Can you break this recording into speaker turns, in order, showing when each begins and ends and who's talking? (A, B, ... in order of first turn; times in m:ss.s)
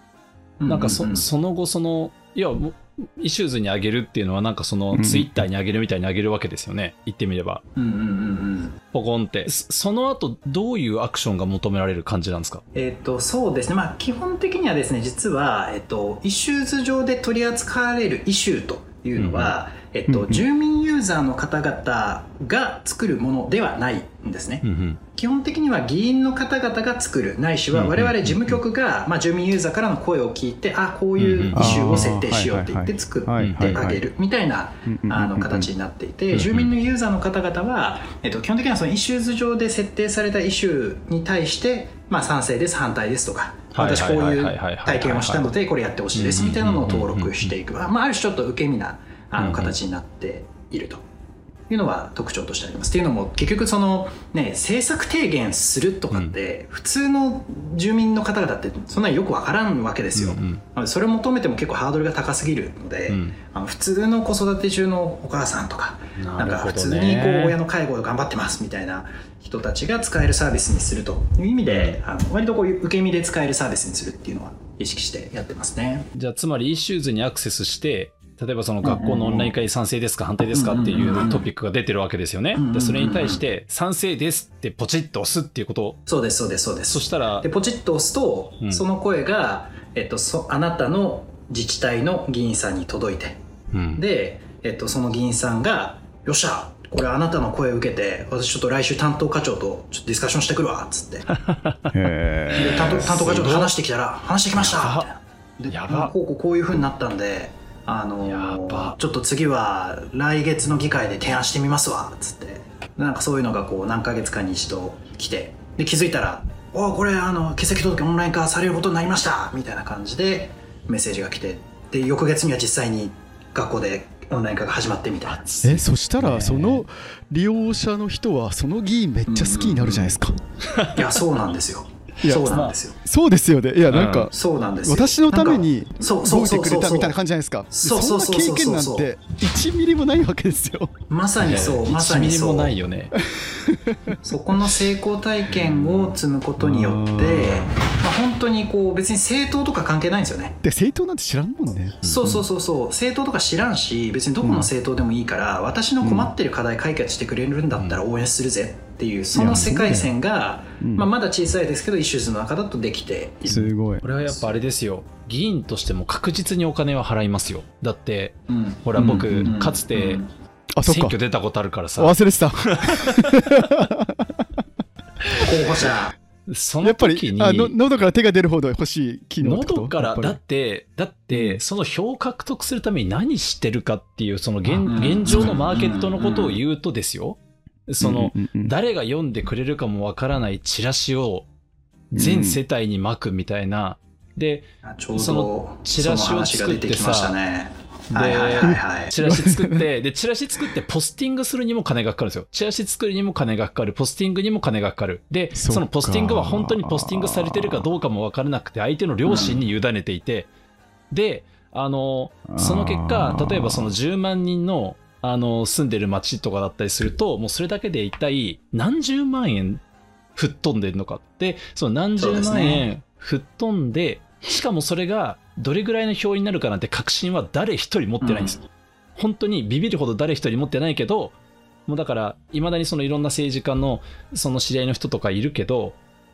0:00.6-0:01.2 A
0:00.7-0:07.6 B
0:04.9-0:05.3 C
0:07.8-0:08.8 A
0:08.9-0:12.6 B
0:12.7-0:51.0 A
0:19.2-0:19.5 B
0:20.1-0:20.4 C
0:24.6-0:25.0 B
0:27.7-0:28.6 B
0:31.2-0:32.1 B
0:31.5-0:34.0 C
0:33.4-0:33.9 B
0:34.8-0:35.7 C
0:36.3-0:36.7 B
0:43.7-0:45.5 B
0:46.1-0:47.5 B
0:49.4-0:49.7 B
0:51.7-1:16.1 A
1:00.1-1:00.6 B
1:03.1-1:03.4 B
1:06.2-1:07.6 B
1:11.7-1:12.0 B
1:16.1-1:26.0 B
1:18.8-1:19.5 A
1:20.5-1:21.4 A
1:22.6-1:23.4 A
1:26.1-1:33.4 A
1:26.9-1:27.4 B
1:33.7-1:34.0 B
1:33.9-1:41.3 A
1:41.3-1:43.7 B
1:41.9-1:43.4 C
1:42.5-2:05.4 A
1:44.6-1:45.1 B
1:45.7-1:46.1 B
1:48.2-1:48.9 B
2:05.2-2:06.8 B
2:05.6-2:10.3 C
2:09.3-2:10.2 A
2:10.7-2:11.1 B
2:10.9-2:13.0 A
2:12.2-2:21.0 C
2:12.5-2:12.7 B
2:13.9-2:14.3 B
2:14.3-2:17.1 A
2:17.7-2:19.1 A
2:21.1-2:22.7 A
2:21.4-2:23.2 B
2:23.3-2:24.2 C
2:24.2-2:30.6 A
2:25.5-2:26.2 B
2:26.6-2:27.7 C
2:30.6-2:32.4 C
2:32.0-2:32.4 B
2:32.0-2:43.7 A
2:34.4-2:34.7 C
2:36.0-2:36.3 C
2:39.3-2:40.1 C
2:39.4-2:39.7 B
2:40.8-2:41.1 C
2:43.5-2:44.0 C
2:44.0-2:50.2 B
2:48.5-2:50.3 A
2:50.7-2:51.2 C
2:50.8-2:53.6 B
2:52.0-2:54.6 C
2:55.4-2:56.1 A
2:56.5-2:57.7 B
2:56.8-3:00.4 C
2:59.4-3:11.5 B
3:01.3-3:01.6 C
3:04.9-3:06.6 A
3:08.0-3:08.7 C
3:12.1-3:17.3 B
3:12.1-3:12.6 C
3:14.8-3:19.1 A
3:18.1-3:30.5 B
3:18.6-3:19.9 C
3:25.5-3:27.9 C
3:29.2-3:29.6 A
3:31.1-3:39.8 B
3:32.5-3:33.9 C
3:40.4-3:48.6 B
3:42.2-3:42.8 A
3:48.2-3:48.6 A
3:49.2-3:51.4 B
3:51.9-3:56.0 B